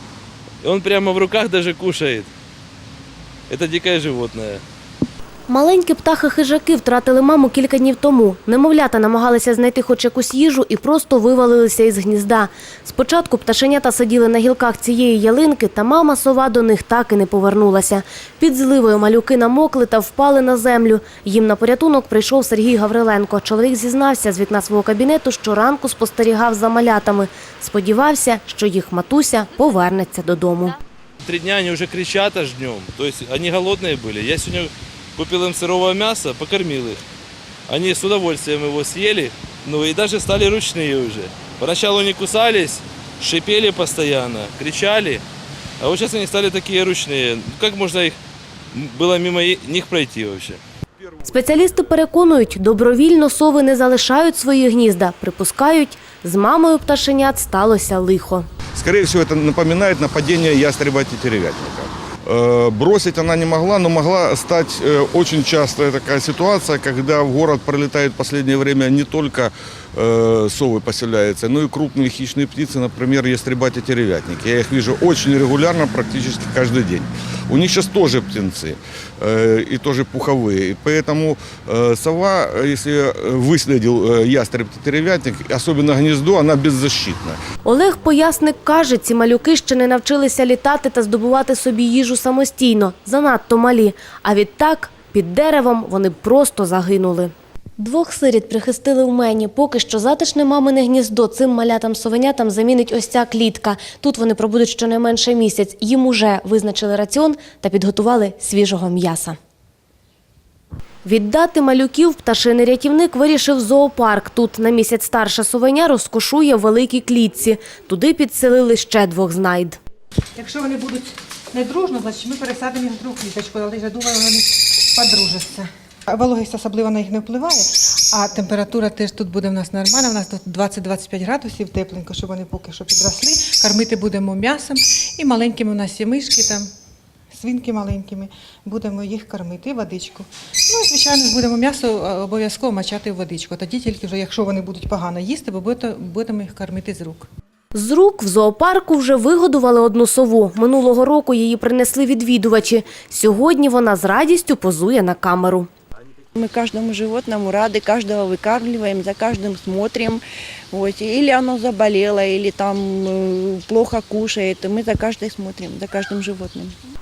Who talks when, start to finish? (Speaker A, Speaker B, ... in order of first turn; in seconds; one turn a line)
Speaker A: 0.6-2.3
Speaker A: 3.5-4.6
Speaker B: 5.5-30.8
Speaker A: 31.2-37.0
Speaker A: 37.7-45.2
Speaker A: 45.8-48.2
Speaker A: 48.7-50.6
Speaker B: 51.2-58.5
Speaker C: 58.8-87.4
Speaker B: 87.6-109.4
Speaker B: 111.0-119.8
Speaker D: 120.4-136.7
Speaker D: 137.3-147.3
Speaker B: 147.7-155.7
Speaker E: 156.4-166.8